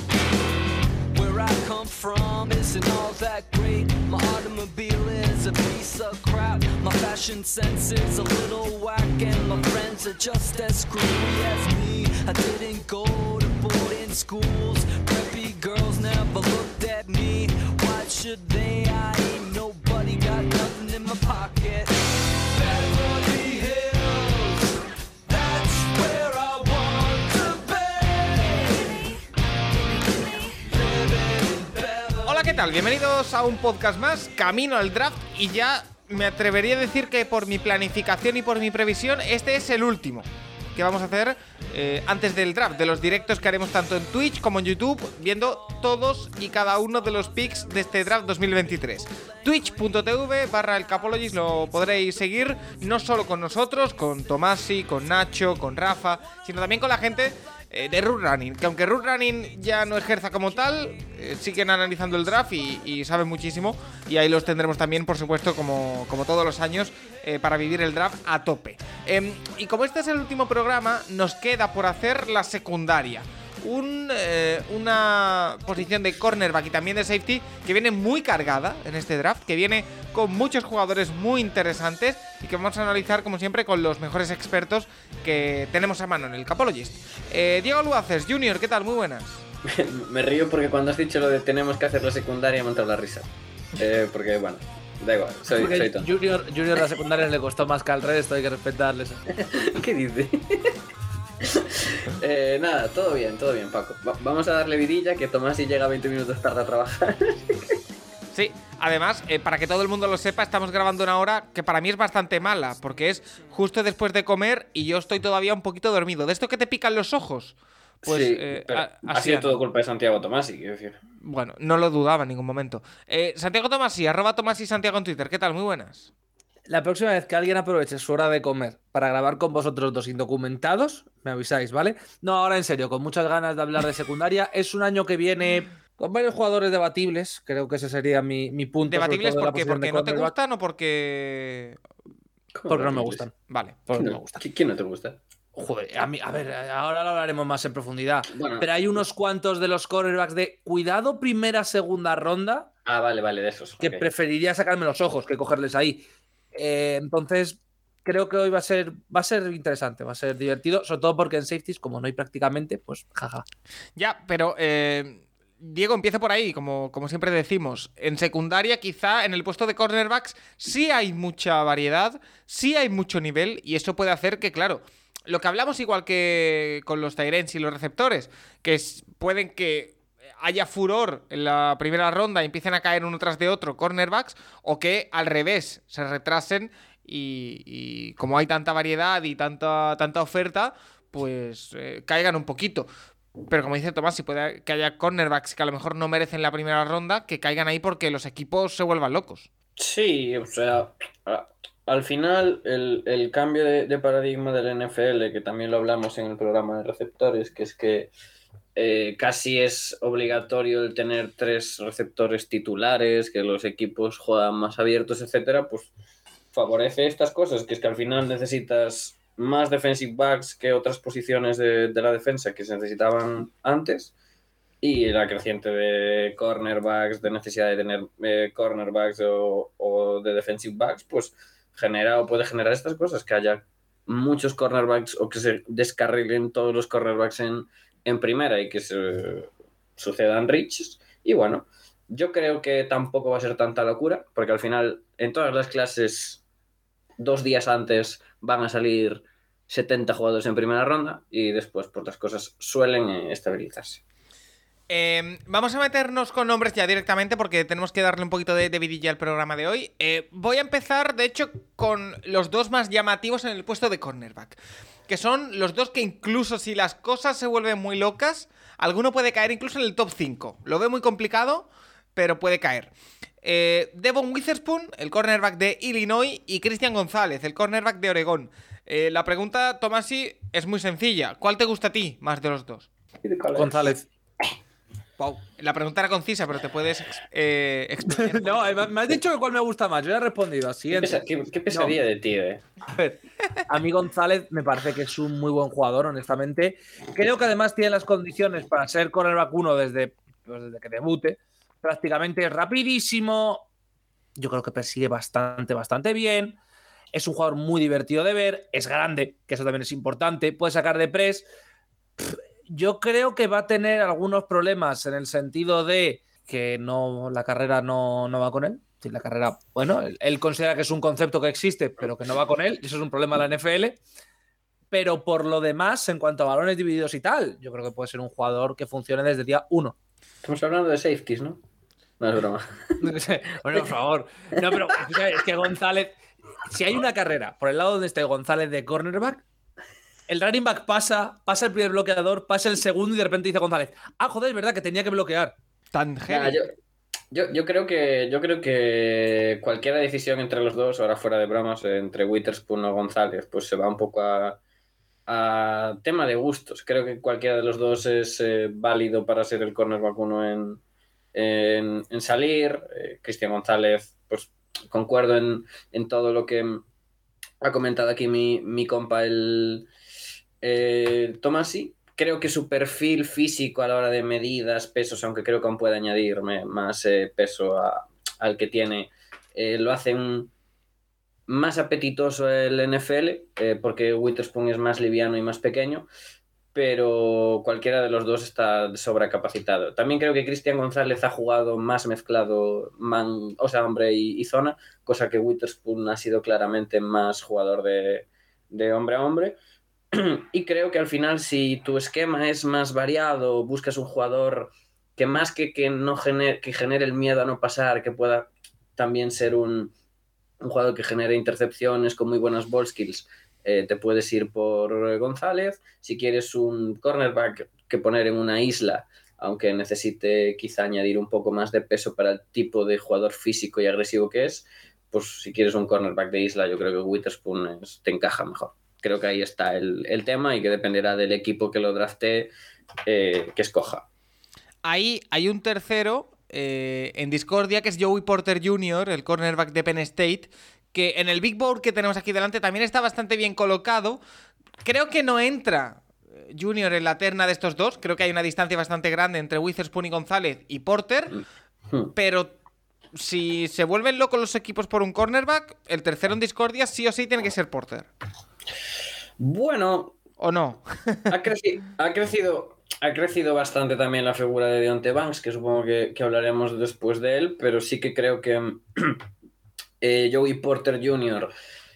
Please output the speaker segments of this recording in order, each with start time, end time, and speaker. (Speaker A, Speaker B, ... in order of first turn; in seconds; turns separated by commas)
Speaker A: 1.1-29.2, Speaker A: 30.3-32.8, Speaker B: 32.3-89.4, Speaker C: 89.7-96.1, Speaker D: 95.5-99.3, Speaker C: 99.3-100.8, Speaker C: 101.4-107.8, Speaker B: 108.3-117.6, Speaker C: 118.0-121.0, Speaker B: 118.1-119.5, Speaker B: 121.2-126.1, Speaker D: 126.7-140.3, Speaker B: 138.9-141.8, Speaker C: 142.5-143.2, Speaker D: 142.7-143.3, Speaker B: 143.5-144.0, Speaker D: 143.9-144.4, Speaker C: 144.0-145.2, Speaker D: 145.6-152.7, Speaker C: 148.3-148.8, Speaker C: 152.9-154.1, Speaker D: 153.8-163.4, Speaker B: 164.0-192.9, Speaker B: 193.5-199.5, Speaker C: 199.8-208.1, Speaker C: 208.8-215.9, Speaker C: 216.5-224.1, Speaker C: 224.8-246.4, Speaker C: 247.2-254.0, Speaker B: 254.9-264.6, Speaker B: 265.1-282.9, Speaker C: 283.2-283.9, Speaker D: 283.6-284.1, Speaker B: 285.2-288.9, Speaker D: 288.1-291.9, Speaker C: 290.9-292.6, Speaker D: 292.9-303.7, Speaker D: 304.4-306.6, Speaker D: 307.1-311.5, Speaker D: 312.2-324.0, Speaker D: 324.9-329.9, Speaker C: 330.4-331.6, Speaker C: 332.2-333.1, Speaker D: 333.0-339.4, Speaker D: 340.3-345.5, Speaker B: 345.9-346.6, Speaker C: 346.3-346.6, Speaker C: 347.3-354.6, Speaker C: 355.3-360.8, Speaker C: 361.3-366.8, Speaker C: 367.6-369.9, Speaker C: 370.6-380.5, Speaker C: 381.5-386.1, Speaker C: 386.7-399.6, Speaker C: 400.1-409.9, Speaker C: 410.6-432.5, Speaker C: 433.1-434.1, Speaker B: 434.8-444.2, Speaker B: 444.8-451.4, Speaker B: 452.1-452.5, Speaker B: 453.1-458.1, Speaker C: 459.4-460.2, Speaker B: 460.4-461.3, Speaker C: 461.3-469.2, Speaker C: 470.0-471.5